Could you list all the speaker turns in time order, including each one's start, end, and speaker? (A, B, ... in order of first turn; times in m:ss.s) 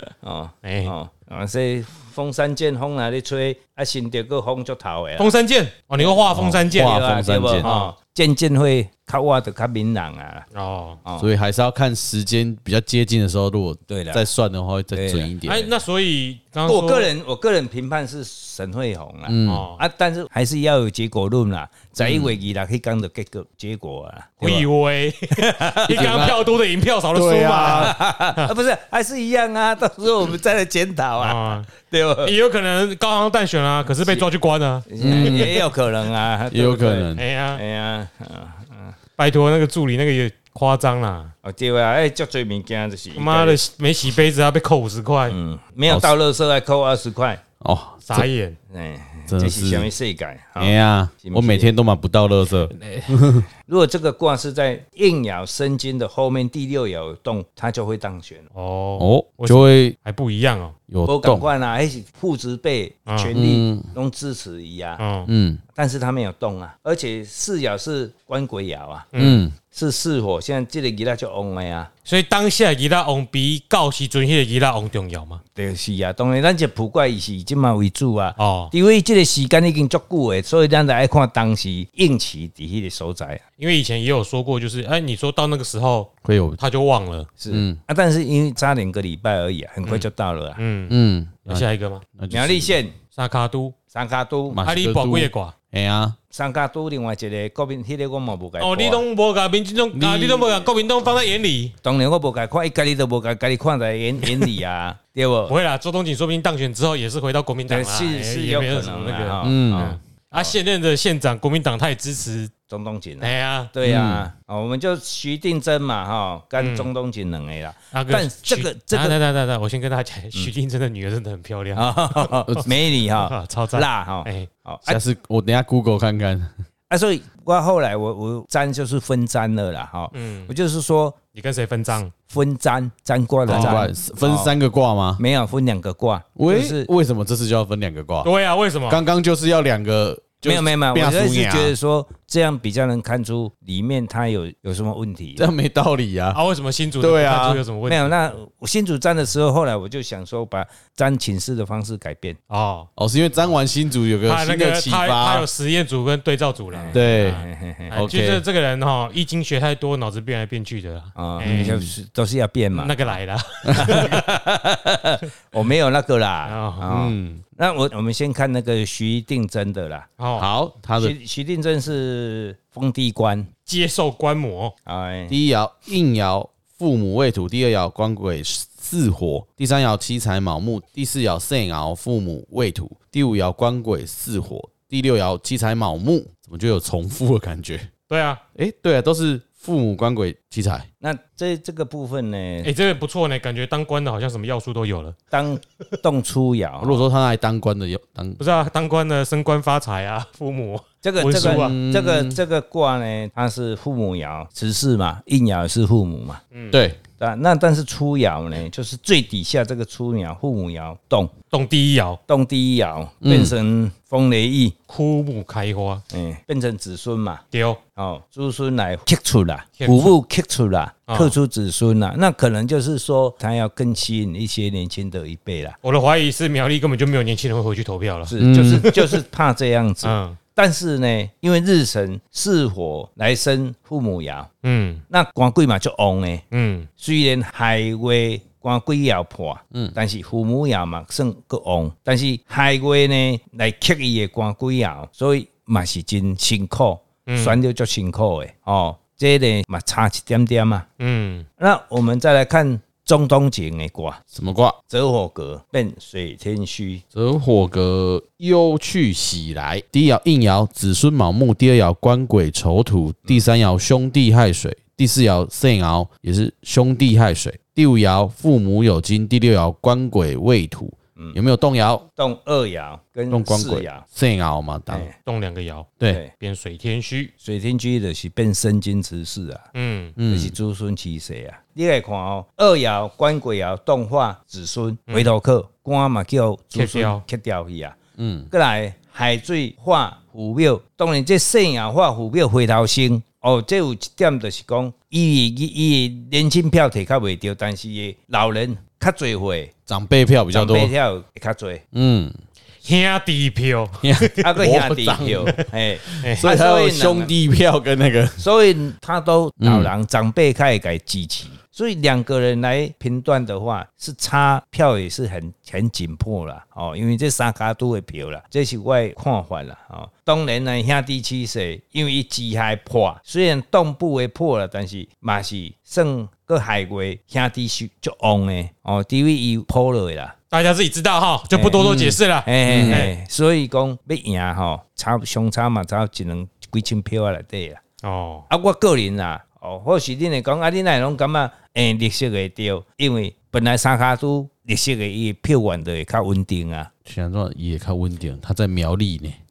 0:00.2-0:05.3 A
0:00.6-0:00.9 B
0:05.2-0:07.0 B
0:06.0-0:10.5 A
0:06.3-0:07.7 C
0:07.6-0:07.9 B
0:10.5-0:11.0 B
0:11.2-0:15.7 C
0:13.9-0:14.2 A
0:14.9-0:15.7 A
0:15.4-0:17.1 B
0:16.6-0:24.7 A
0:19.3-0:19.7 C
0:19.5-0:19.8 B
0:24.4-0:28.5 B
0:25.3-0:26.3 A
0:25.9-0:26.5 C
0:27.1-0:28.0 C
0:27.6-0:32.3 A
0:31.2-0:31.7 B
0:32.2-0:35.5 B
0:34.9-0:38.9 A
0:35.0-0:35.6 C
0:36.5-0:37.2 C
0:37.2-0:37.6 B
0:39.2-0:41.3 B
0:41.4-0:43.6 A
0:43.2-0:45.4 B
0:45.3-0:47.4 A
0:47.6-0:48.3 C
0:48.0-0:48.6 B
0:48.7-0:51.7 A
0:49.3-0:49.9 C
0:50.6-0:53.5 C
0:52.7-0:53.2 B
0:53.6-0:58.5 A
0:58.5-1:00.8 B
0:59.0-1:00.0 C
1:00.9-1:01.5 C
1:01.0-1:05.0 A
1:03.1-1:03.3 B
1:03.4-1:03.9 C
1:05.0-1:05.3 B
1:05.3-1:05.6 C
1:05.8-1:09.1 A
1:09.1-1:09.4 B
1:09.2-1:09.6 C
1:09.7-1:11.9 A
1:12.0-1:15.4 B
1:15.6-1:23.4 A
1:18.4-1:18.7 B
1:23.6-1:27.3 B
1:26.2-1:26.6 C
1:27.4-1:30.6 A
1:27.5-1:27.8 C
1:29.8-1:32.0 B
1:30.9-1:31.6 C
1:32.2-1:32.7 C
1:32.3-1:33.0 A
1:33.2-1:33.8 B
1:33.9-1:34.6 A
1:34.5-1:36.2 C
1:34.6-1:35.5 B
1:36.3-1:39.0 A
1:38.6-1:41.7 B
1:39.9-1:40.7 C
1:41.8-1:45.5 A
1:45.5-1:52.5 B
1:47.7-1:50.5 A
1:49.4-1:49.9 C
1:52.7-1:59.2 A
1:53.2-1:53.7 B
1:53.8-1:54.3 C
1:56.6-1:56.9 B
1:57.9-2:04.5 B
2:01.8-2:05.0 A
2:04.9-2:06.5 C
2:06.9-2:11.2 A
2:10.1-2:10.5 B
2:11.4-2:12.1 B
2:12.3-2:14.5 A
2:13.5-2:13.8 B
2:13.5-2:15.2 C
2:15.2-2:16.9 A
2:16.4-2:18.3 C
2:18.2-2:19.0 B
2:18.9-2:21.8 C
2:20.4-2:25.5 A
2:25.4-2:26.4 C
2:26.3-2:28.1 B
2:27.0-2:27.6 C
2:27.9-2:32.4 A
2:32.5-2:32.9 B
2:33.0-2:35.5 C
2:34.2-2:41.8 B
2:36.7-2:38.0 A
2:36.9-2:38.4 C
2:41.2-2:42.9 A
2:41.4-2:41.9 C
2:42.7-2:44.2 B
2:43.8-2:50.1 A
2:46.5-2:46.9 B
2:46.9-2:47.4 C
2:50.2-2:50.5 B
2:50.4-2:51.1 C
2:51.0-2:53.5 A
2:53.6-2:54.7 B
2:54.9-2:55.4 A
2:55.3-3:07.9 C
3:08.1-3:08.4 B
3:08.6-3:10.9 C
3:11.0-3:12.7 A
3:12.6-3:15.2 B
3:15.3-3:17.0 A
3:16.8-3:18.4 C
3:18.4-3:21.8 B
3:21.0-3:26.4 A
3:21.3-3:22.4 C
3:26.5-3:26.8 B
3:26.7-3:27.0 C
3:27.2-3:31.3 A
3:31.5-3:32.2 B
3:32.3-3:34.8 A
3:33.2-3:33.5 C
3:34.9-3:36.0 B
3:36.1-3:37.4 A
3:37.5-3:37.8 B
3:38.0-3:45.8 A
3:39.8-3:40.1 B
3:41.1-3:41.4 B
3:45.8-3:49.0 B
3:48.3-3:54.5 A
3:48.4-3:49.0 C
3:50.0-3:50.4 B
3:54.6-3:55.0 B
3:55.1-3:56.4 A
3:56.5-3:56.9 B
3:57.0-4:10.9 A
4:07.3-4:07.6 B
4:11.0-4:11.5 B
4:11.6-4:14.2 A
4:14.3-4:14.8 C
4:14.9-4:17.0 A
4:17.1-4:32.0 C
4:32.2-4:34.0 A
4:33.3-4:35.1 C
4:34.9-4:35.1 A
4:35.2-4:37.3 B
4:37.4-4:39.6 A
4:39.8-4:40.2 B
4:40.2-4:40.5 C
4:40.3-4:48.0 A
4:46.8-4:47.2 B
4:48.2-4:48.5 C
4:48.5-4:59.7 A
4:59.9-5:00.9 C
5:00.5-5:01.8 A
5:01.9-5:02.4 C
5:02.8-5:04.4 B
5:04.0-5:08.4 C
5:04.4-5:07.3 A
5:08.4-5:30.4 A
5:09.6-5:09.9 C
5:30.5-5:33.1 B
5:31.5-5:37.8 A
5:32.7-5:33.1 C
5:38.0-5:38.5 B
5:38.5-5:46.9 A
5:47.0-5:49.4 C